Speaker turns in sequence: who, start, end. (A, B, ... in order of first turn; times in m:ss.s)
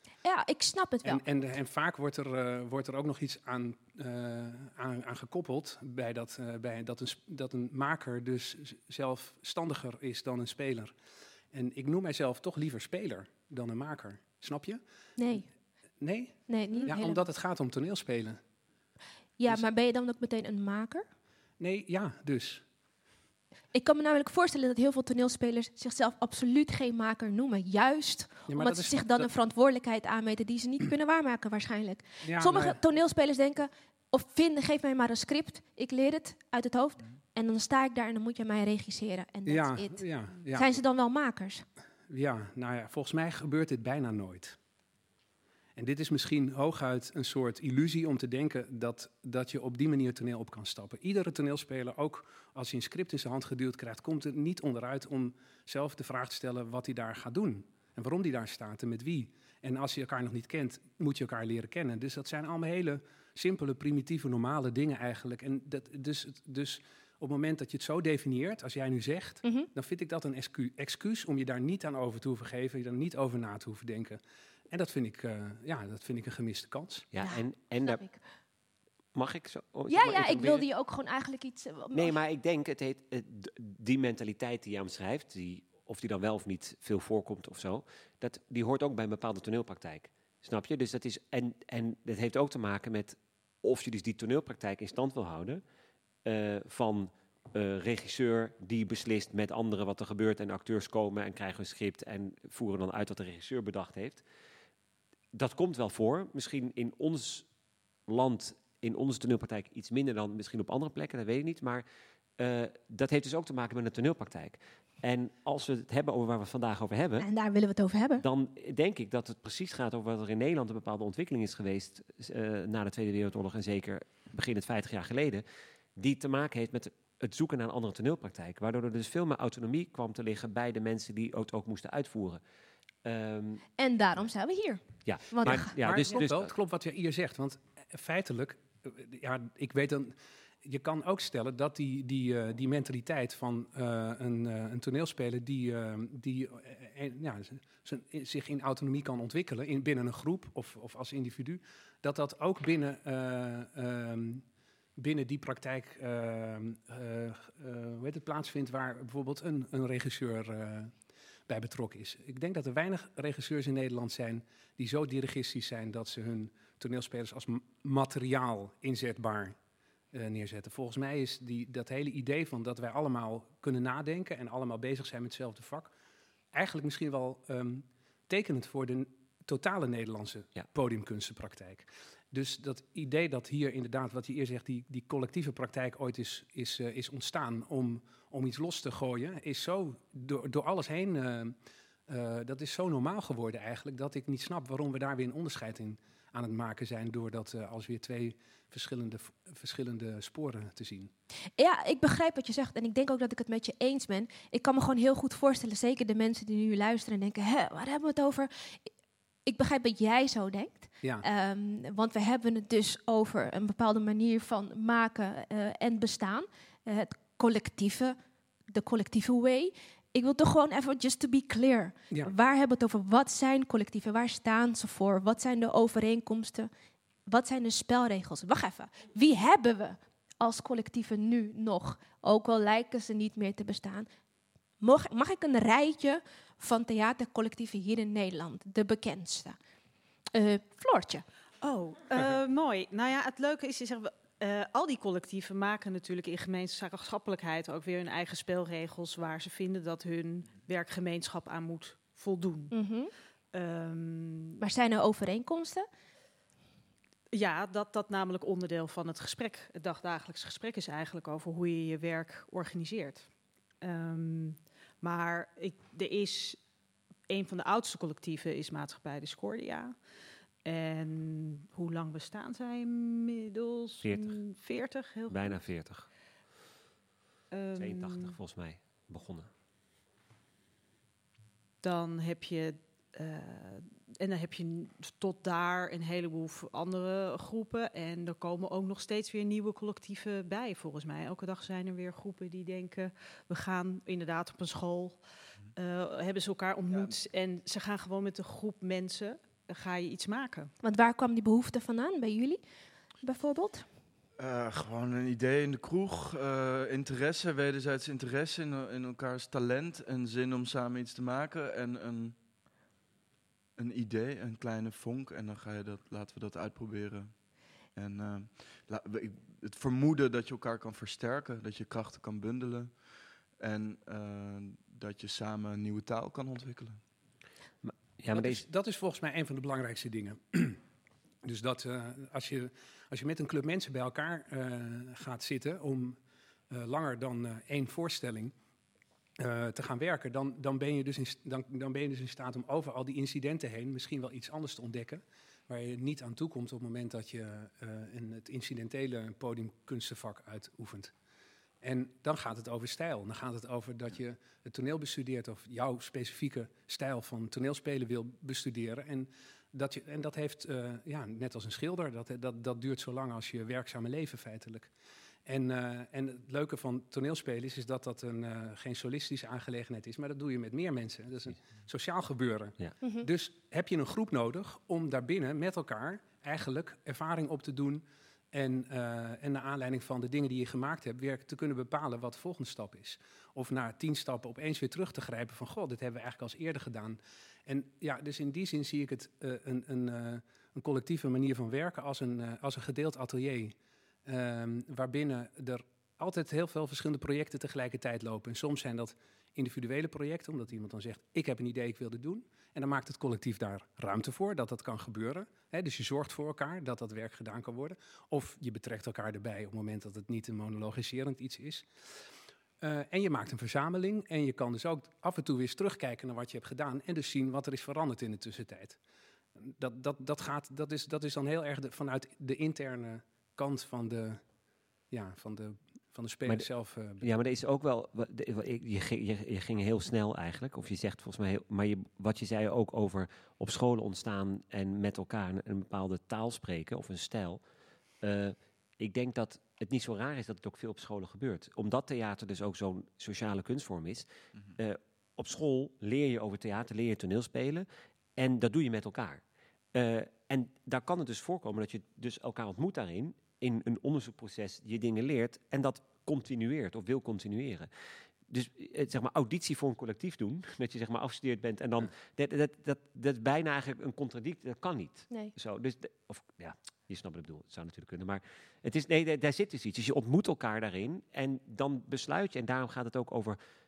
0:00.2-0:01.2 A
0:01.0-0:10.9 B
0:11.5-0:14.8 B
0:15.2-0:15.4 A
0:16.0-0:18.4 B
0:16.5-0:17.2 A
0:19.4-0:21.0 A
0:21.6-0:22.6 B
0:23.7-0:41.6 A
0:28.5-0:29.3 B
0:32.2-0:32.8 B
0:39.4-0:40.8 B
0:42.1-0:44.6 B
0:45.8-1:17.1 B
1:17.1-1:18.1 C
1:17.2-1:18.2 A
1:19.1-1:20.6 C
1:19.9-1:22.2 A
1:21.9-1:35.6 C
1:36.2-1:44.2 C
1:45.3-1:47.4 C
1:48.1-1:51.8 C
1:52.4-1:57.3 C
1:57.2-1:58.2 A
1:58.2-2:05.4 C
2:06.0-2:12.4 C
2:13.0-2:13.6 C
2:13.8-2:15.7 A
2:15.0-2:16.5 C
2:15.7-2:34.4 B
2:35.0-2:40.9 B
2:41.5-2:49.6 B
2:50.1-2:55.9 B
2:56.5-3:11.5 B
3:12.1-3:21.1 B
3:21.6-3:28.9 A
3:29.4-3:38.2 A
3:38.7-3:46.7 A
3:47.3-3:54.1 A
3:54.8-3:59.6 A
4:00.3-4:01.2 A
4:01.6-4:12.7 D
4:12.7-4:13.1 A
4:13.5-4:14.6 D
4:14.6-4:15.9 A
4:17.3-4:23.3 D
4:23.8-4:26.6 D
4:27.3-4:30.0 D
4:30.6-4:35.6 D
4:34.0-4:34.4 C
4:35.3-4:36.1 C
4:37.5-4:38.4 D
4:37.8-4:39.5 C
4:41.8-4:55.2 D
4:55.7-5:00.7 D
5:00.8-5:02.6 A
5:03.2-5:03.8 A
5:04.4-5:12.4 E
5:13.8-5:23.0 E
5:23.6-5:27.0 E
5:27.8-5:28.6 C
5:28.3-5:30.8 B
5:31.4-5:36.2 B
5:36.7-5:38.5 B
5:39.4-5:51.1 B
5:51.8-6:04.9 B
6:05.4-6:51.9 B
6:13.0-6:13.3 A
6:52.8-6:59.0 B
6:59.6-7:04.4 B
7:05.1-7:07.2 B
7:07.2-7:17.6 C
7:18.2-7:24.2 C
7:24.8-7:27.8 C
7:28.4-7:29.4 C
7:29.9-7:37.9 C
7:38.5-7:53.6 C